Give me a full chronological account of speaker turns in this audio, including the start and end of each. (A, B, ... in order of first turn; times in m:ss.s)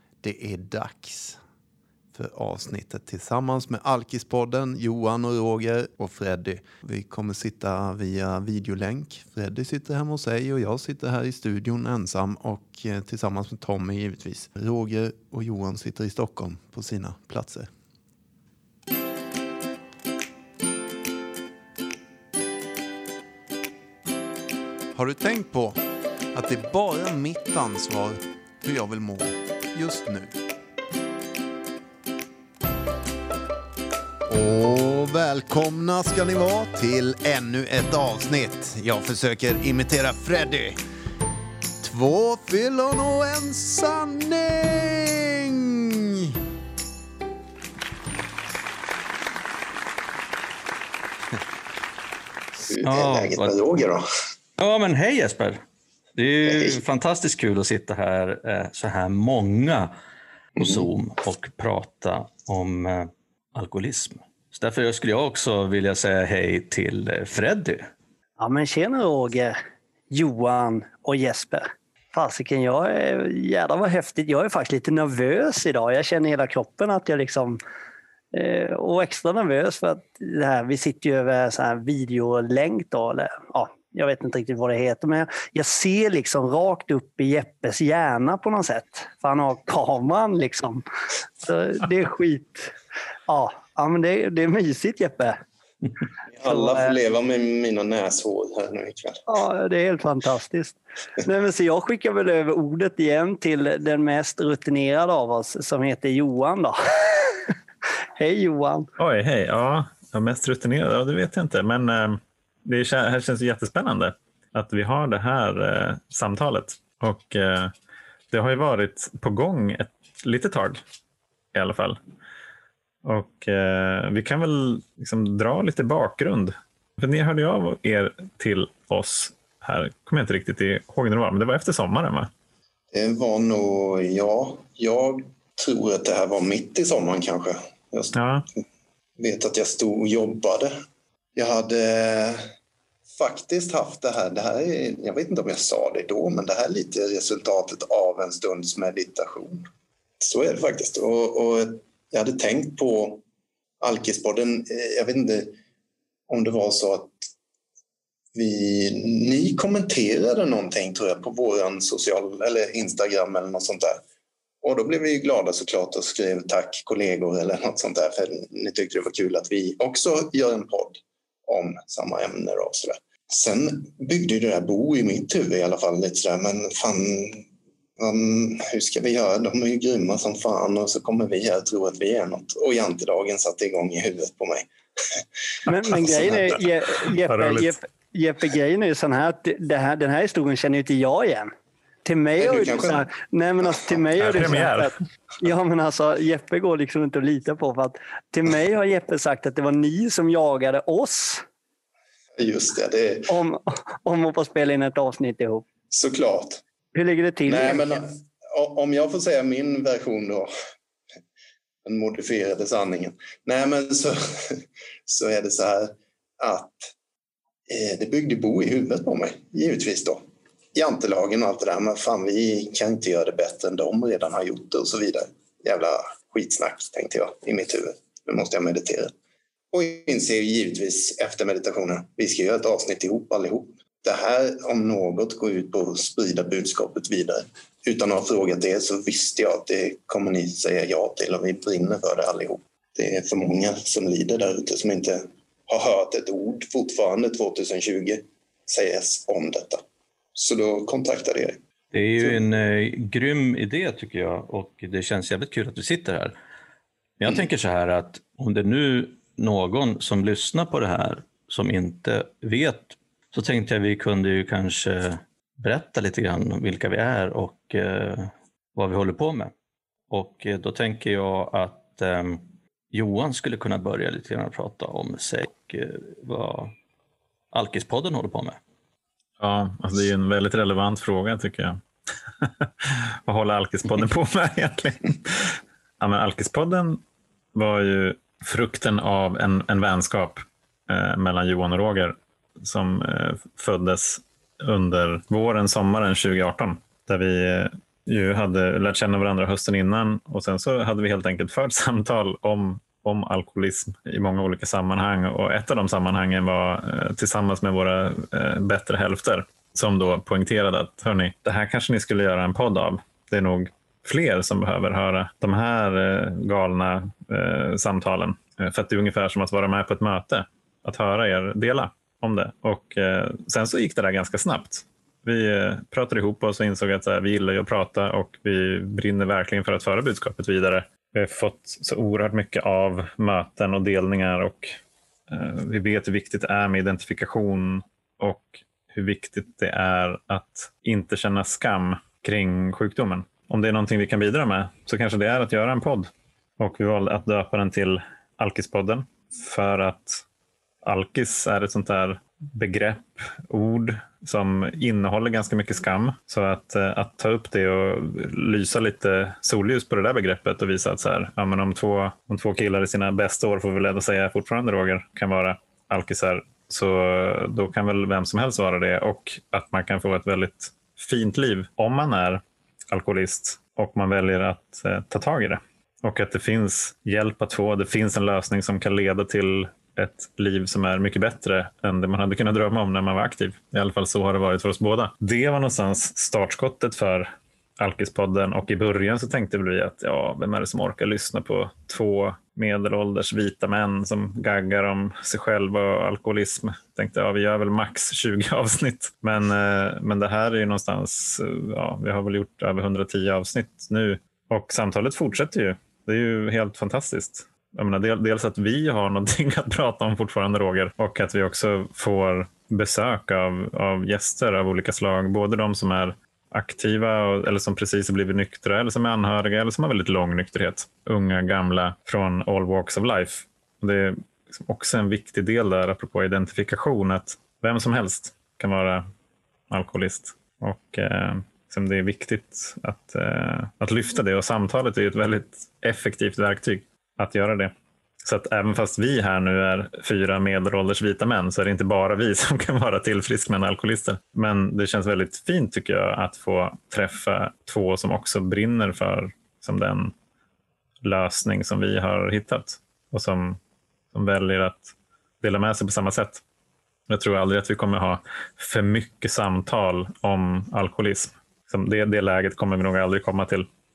0:00.2-0:01.4 A
0:02.1-0:17.7 A
0:25.0-0:25.8 A
0:26.3-0:30.3 A
0:34.3-0:40.8 A
0:41.8-0:46.3 A
0:52.6-0:54.0 B
0:52.8-0:53.5 C
0:54.6-0:55.6 C
0:56.2-0:59.9 C
0:56.4-0:56.8 B
1:00.6-1:07.9 C
1:08.4-1:09.6 D
1:10.1-1:17.6 D
1:18.3-1:30.8 D
1:31.4-1:32.7 D
1:33.3-1:35.4 D
1:36.3-1:39.2 B
1:36.4-1:36.9 D
1:39.3-1:47.4 D
1:48.2-1:48.9 D
1:49.0-1:57.7 E
1:58.3-2:00.8 E
2:01.5-2:02.0 E
2:03.0-2:12.3 E
2:12.9-2:18.2 B
2:18.1-2:18.4 E
2:19.2-2:20.7 B
2:21.3-2:22.4 B
2:23.1-2:29.7 B
2:30.2-2:33.2 B
2:33.8-2:35.5 B
2:36.3-2:37.2 B
2:38.3-2:44.0 B
2:44.6-2:57.4 B
2:58.0-3:05.2 B
3:05.7-3:11.5 D
3:07.2-3:07.7 E
3:12.0-3:21.4 D
3:12.4-3:13.1 B
3:14.2-3:14.9 E
3:22.4-3:23.3 B
3:23.3-3:25.6 D
3:25.9-3:26.6 B
3:26.9-3:27.9 D
3:27.4-3:30.5 B
3:31.8-3:36.9 B
3:37.7-3:40.2 B
3:40.7-3:49.1 B
3:49.7-4:09.8 B
4:10.3-4:11.6 B
4:11.9-4:16.3 C
4:17.2-4:29.5 C
4:30.1-4:36.7 C
4:37.5-4:38.6 C
4:39.4-4:41.8 E
4:42.4-4:47.0 E
4:47.5-5:34.7 E
5:35.3-5:50.2 E
5:50.8-7:09.0 E
7:09.7-7:17.7 E
7:18.2-7:30.1 E
7:31.0-7:33.6 E
7:34.1-7:36.4 E
7:37.1-7:43.7 E